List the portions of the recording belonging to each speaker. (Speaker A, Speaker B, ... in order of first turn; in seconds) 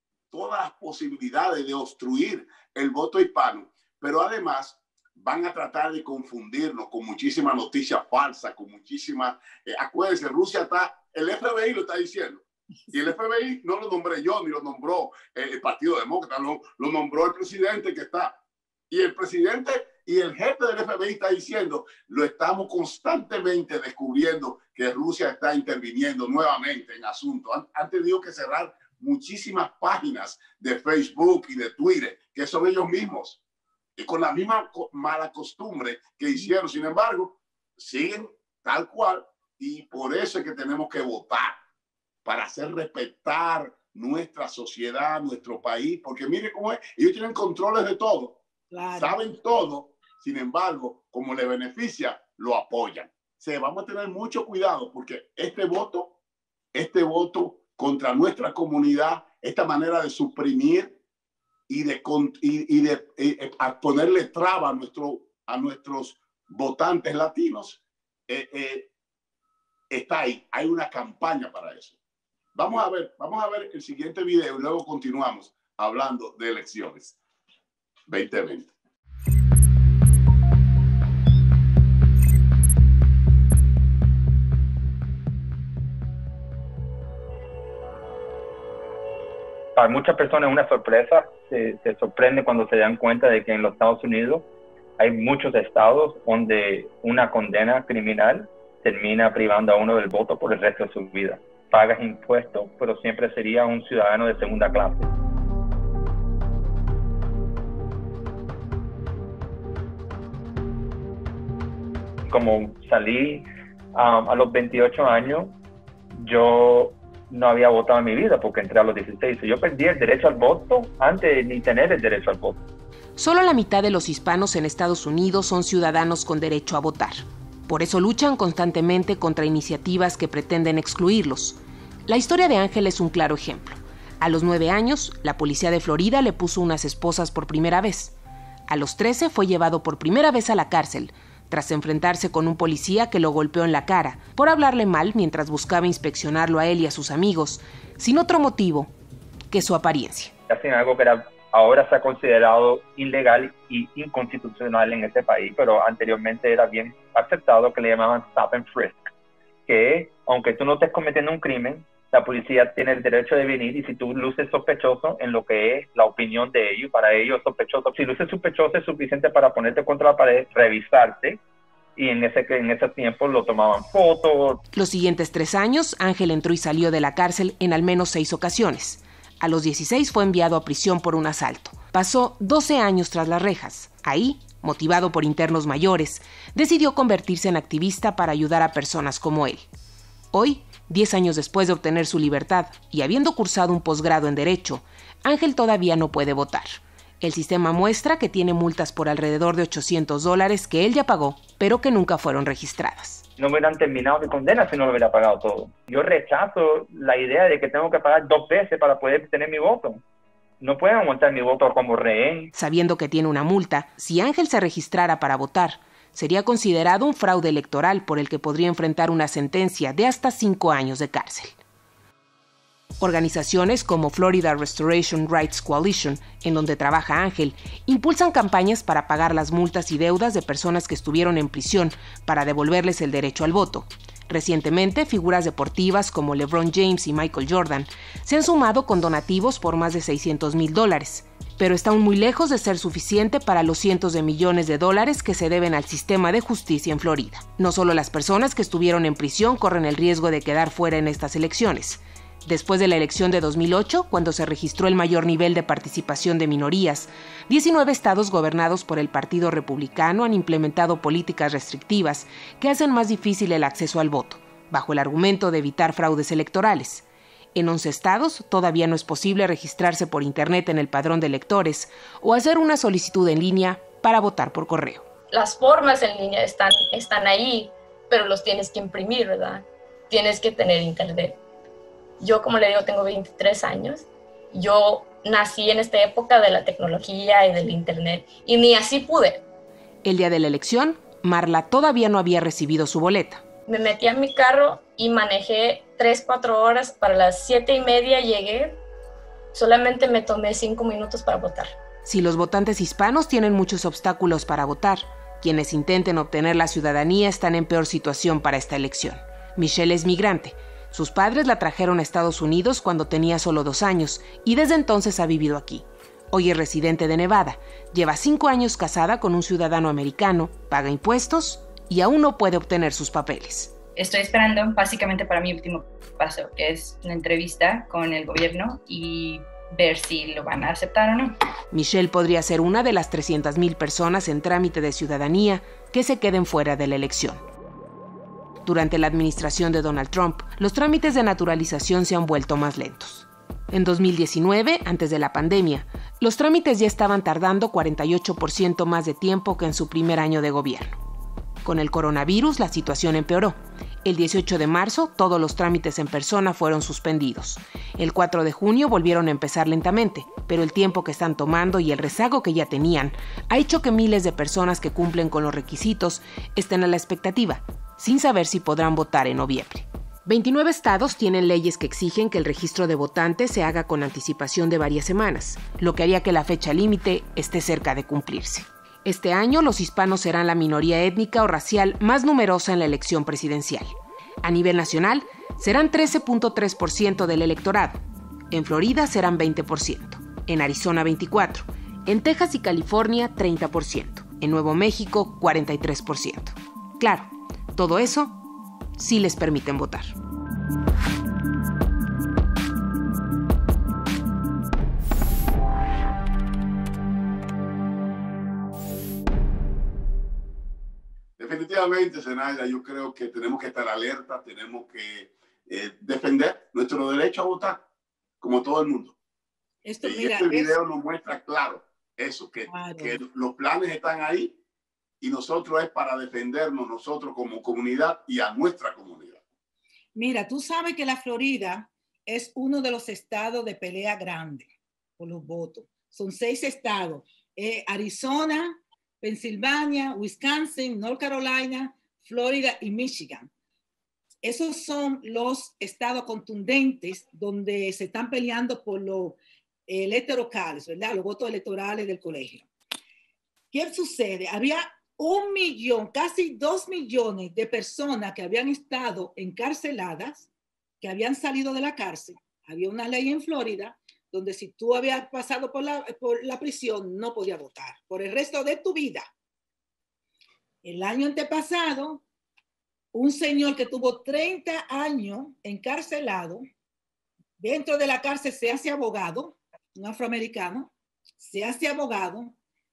Speaker A: 0.3-18.4, 18.9-33.4, 34.0-41.6, 42.2-48.4, 48.9-56.1, 56.7-61.0, 61.7-68.9, 69.9-72.0, 72.5-77.2, 78.1-78.7, 411.4-417.8, 418.4-419.1, 420.0-424.6, 425.2-429.4
Speaker B: 48.7-49.2, 419.9-420.8, 422.7-423.2, 430.1-443.5, 444.4-452.7, 453.7-460.5, 461.0-469.3, 470.8-472.2, 473.1-476.6, 477.6-482.6
Speaker C: 89.8-94.5, 95.0-105.1, 112.3-115.5, 116.2-122.6, 150.5-159.1, 159.7-171.4, 172.0-174.6, 203.4-210.0, 210.6-212.5
Speaker D: 123.2-138.2, 138.7-148.9, 149.5-150.3, 174.7-189.7, 190.3-203.3, 212.5-221.6, 223.0-275.1, 290.0-293.4, 302.1-323.7, 331.7-337.4, 338.6-351.0, 351.6-383.9, 384.4-398.4, 399.0-400.1
Speaker E: 275.3-281.4, 282.2-289.4, 293.7-298.8, 299.5-301.8
Speaker F: 324.0-331.3